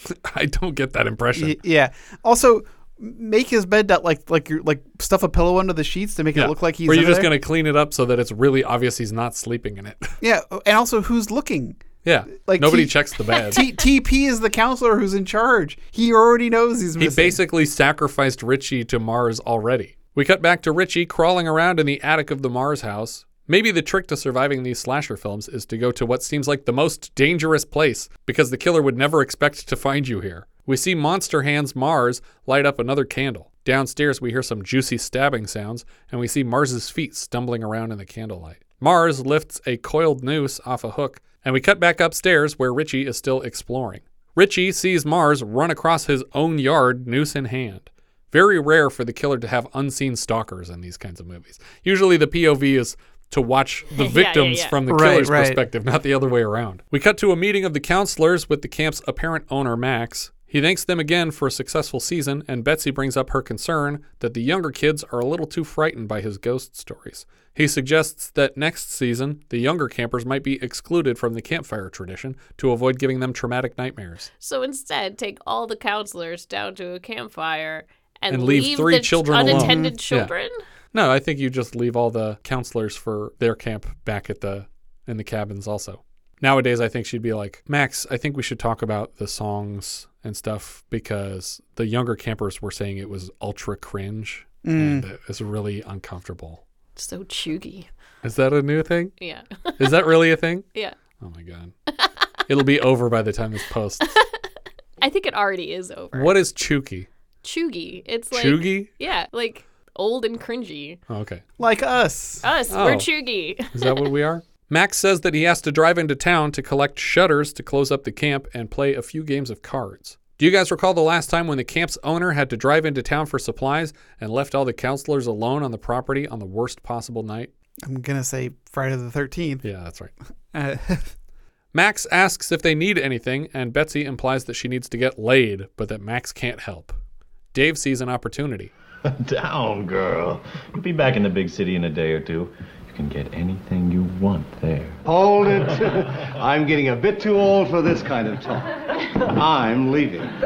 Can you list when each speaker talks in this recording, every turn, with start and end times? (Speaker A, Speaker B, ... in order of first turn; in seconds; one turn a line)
Speaker A: 0.2-1.6
Speaker B: 1.4-7.3
Speaker A: 6.3-10.1
Speaker B: 10.2-11.8
Speaker A: 12.0-13.7
Speaker B: 12.3-17.4
Speaker A: 17.0-74.3
Speaker C: 53.9-54.8
Speaker B: 54.9-55.6
Speaker C: 74.4-80.6
Speaker A: 78.3-80.3
Speaker B: 79.4-79.9
Speaker A: 80.9-96.6
Speaker B: 94.6-95.1
Speaker C: 97.0-97.9
Speaker A: 98.2-99.1
Speaker C: 99.2-100.0
Speaker A: 99.8-100.7
Speaker A: 101.2-101.7
Speaker A: 102.5-104.2
Speaker C: 104.1-104.4
Speaker C: 105.0-106.3
Speaker A: 106.1-107.1
Speaker C: 107.4-111.0
Speaker A: 108.3-108.9
Speaker A: 111.1-111.4
Speaker B: 111.6-112.5
Speaker C: 112.4-114.0
Speaker A: 112.7-113.1
Speaker A: 113.7-127.5
Speaker B: 127.8-129.7
Speaker A: 129.6-130.1
Speaker B: 130.5-131.1
Speaker A: 131.7-137.0
Speaker A: 137.5-138.7
Speaker D: 139.2-145.0
Speaker E: 145.1-148.7
Speaker E: 149.3-150.3